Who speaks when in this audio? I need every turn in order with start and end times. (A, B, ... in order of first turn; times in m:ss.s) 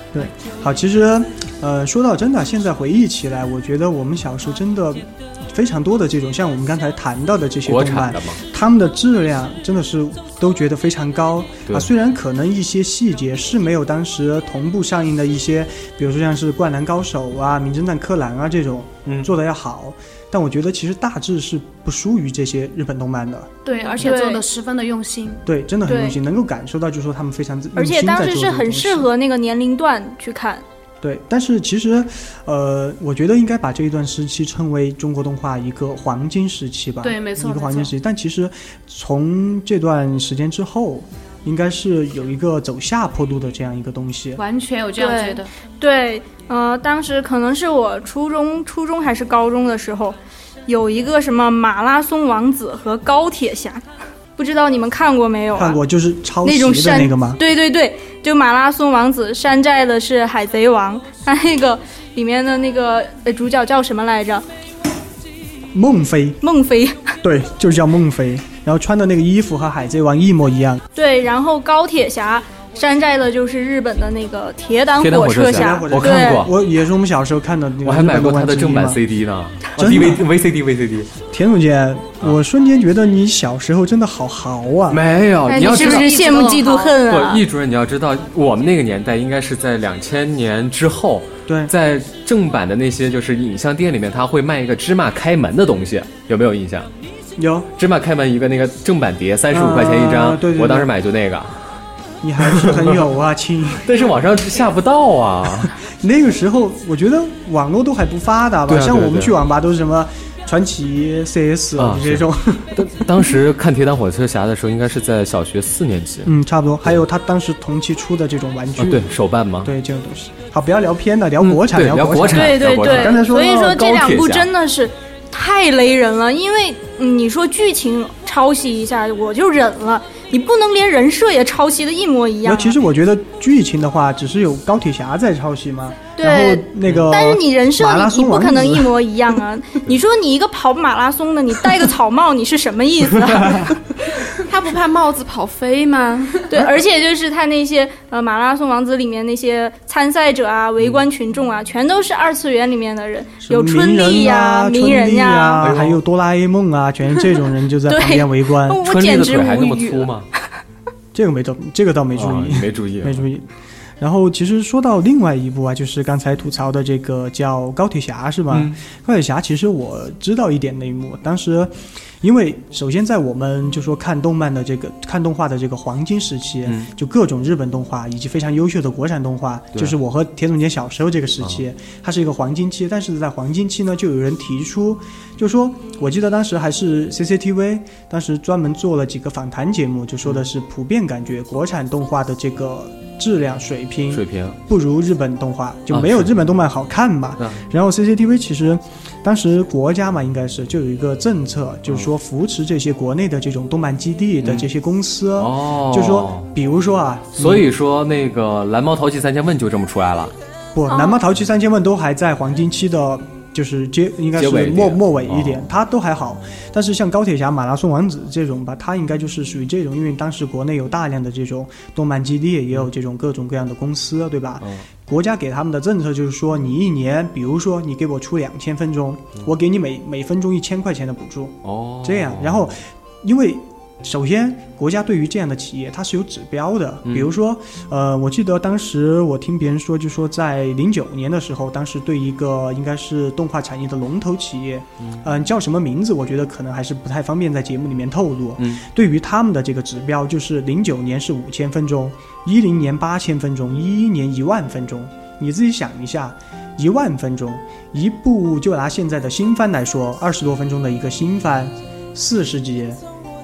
0:00.1-0:23.5 A
0:07.7-0:08.4 B
0:23.6-0:25.4 C
0:24.0-0:24.4 D
0:25.4-0:29.1 A
0:25.9-0:26.2 D
0:27.8-0:30.6 D
0:31.0-0:44.4 A
0:37.0-0:37.9 C
0:44.4-0:45.5 C
0:45.0-0:50.2 D
0:50.7-0:53.8 D
0:54.4-0:55.8 D
0:55.6-0:57.4 A
0:56.4-1:04.4 D
1:05.7-1:06.4 A
1:06.4-1:07.2 D
1:07.2-1:10.8 A
1:11.0-1:16.4 D
1:15.0-1:16.5 B
1:15.5-1:19.0 A
1:17.8-1:21.1 B
1:19.8-1:20.3 A
1:21.3-1:25.0 A
1:24.9-1:26.1 B
1:25.5-1:27.4 D
1:25.6-1:27.0 C
1:27.0-1:36.9 B
1:31.5-1:31.7 A
1:37.4-1:37.7 A
1:37.8-1:41.8 B
1:39.5-1:40.9 A
1:42.2-1:43.9 A
1:42.5-1:43.0 B
1:43.8-1:45.8 B
1:45.8-1:52.9 A
1:48.7-1:49.4 B
1:51.8-1:56.3 B
1:56.2-1:59.1 A
1:58.8-1:59.7 B
1:59.6-2:03.7 A
2:01.4-2:04.5 B
2:02.3-2:12.8 D
2:12.4-2:18.9 A
2:16.2-2:23.8 D
2:24.3-2:26.5 E
2:26.5-2:35.6 D
2:33.4-2:38.8 A
2:35.6-2:36.0 B
2:37.9-2:40.1 D
2:38.8-2:40.3 B
2:41.1-2:43.5 A
2:42.2-2:43.3 B
2:44.0-3:27.7 A
2:48.5-2:48.8 B
2:56.6-2:56.9 B
3:14.1-3:14.6 B
3:15.9-3:16.3 B
3:25.4-3:26.5 B
3:27.4-3:30.3 B
3:30.7-4:23.0 A
3:30.9-3:31.2 D
3:34.4-3:35.7 B
3:44.6-3:44.9 B
3:51.6-3:52.7 B
3:57.0-3:57.3 B
4:05.0-4:05.3 B
4:08.6-4:08.8 B